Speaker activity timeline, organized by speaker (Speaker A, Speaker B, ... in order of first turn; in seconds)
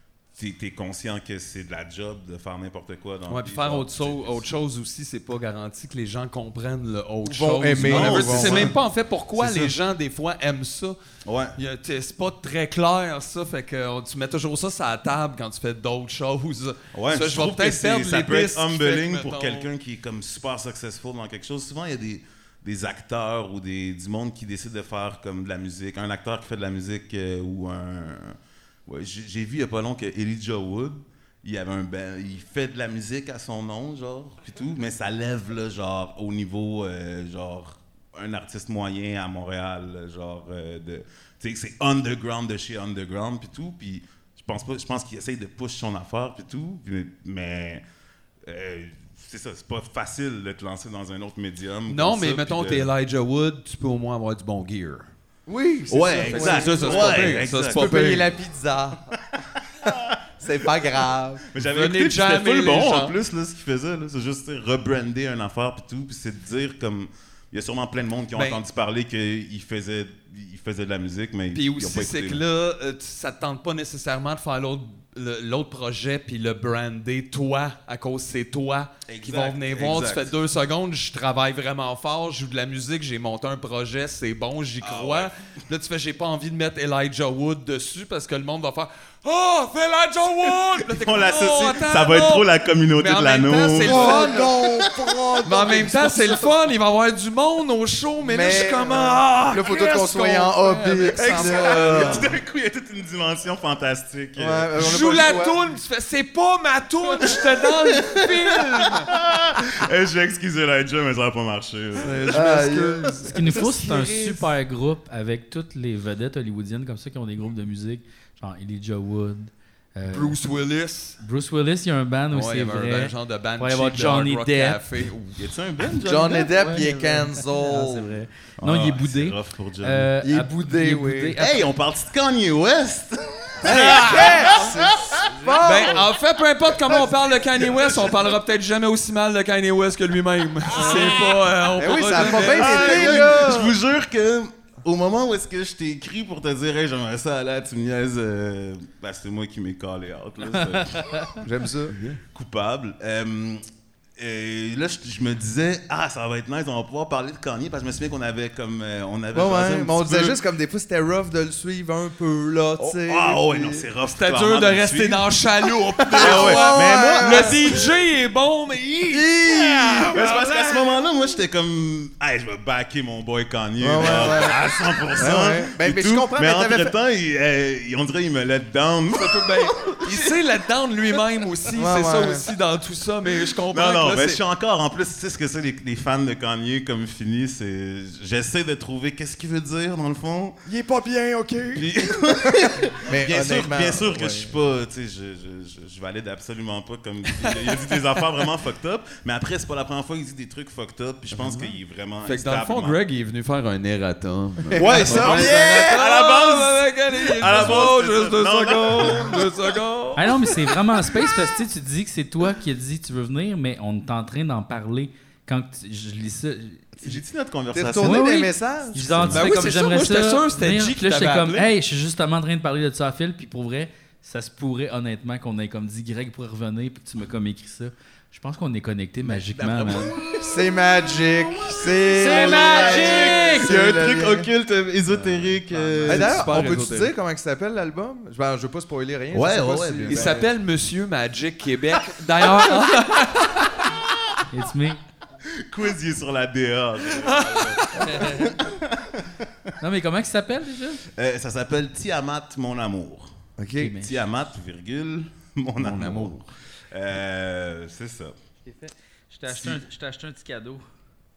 Speaker A: 0.3-4.4, 7.7-8.8, 9.3-9.7, 11.2-11.5, 16.9-47.8, 48.4-52.9, 55.9-58.0, 59.8-60.1, 61.5-72.4, 79.1-80.3, 84.8-85.3, 90.8-94.9, 101.2-105.2, 107.2-112.4, 125.4-126.8, 128.6-130.1, 131.4-135.5, 137.6-138.3, 140.7-141.4, 141.9-151.4, 152.3-153.6, 154.2-160.4, 162.8-165.3, 166.1-167.8, 169.5-180.3, 183.7-190.6, 191.7-203.0, 204.7-209.6, 217.0-218.4, 219.0-219.6, 229.4-230.3, 231.9-236.7, 239.3-240.4, 245.7-249.5, 251.2-253.3, 253.9-258.3, 259.5-259.8
Speaker B: 3.3-11.0, 11.6-19.7, 51.9-55.1, 56.2-58.3, 61.7-63.2, 68.3-68.6, 71.5-94.5, 95.4-102.4, 104.8-109.1, 112.0-114.3, 120.1-121.2, 122.3-125.5, 133.8-134.6, 135.6-143.3, 151.9-152.2, 164.1-170.8, 179.1-184.4, 201.3-210.4, 219.3-221.7, 235.1-237.1, 240.1-243.8, 247.2-248.0, 255.8-256.4
Speaker C: 7.2-8.7, 55.5-59.1, 60.4-61.4, 93.8-96.5, 98.2-102.3, 104.3-105.6, 112.3-113.3, 126.0-128.2, 130.2-131.3, 133.6-136.1, 140.8-143.8, 151.4-152.0, 159.3-163.8, 166.0-167.9, 169.1-170.5, 173.8-176.9, 181.7-182.4, 190.7-194.6, 204.8-205.9, 217.7-219.3, 230.3-234.5, 236.1-240.5, 253.6-253.9
Speaker D: 113.3-120.4, 121.2-124.8, 126.5-131.7, 150.6-151.3, 210.2-217.2, 218.0-230.1, 232.2-233.7, 235.7-236.2, 244.5-245.0, 248.0-248.5, 249.8-251.0, 253.8-254.2, 258.7-260.8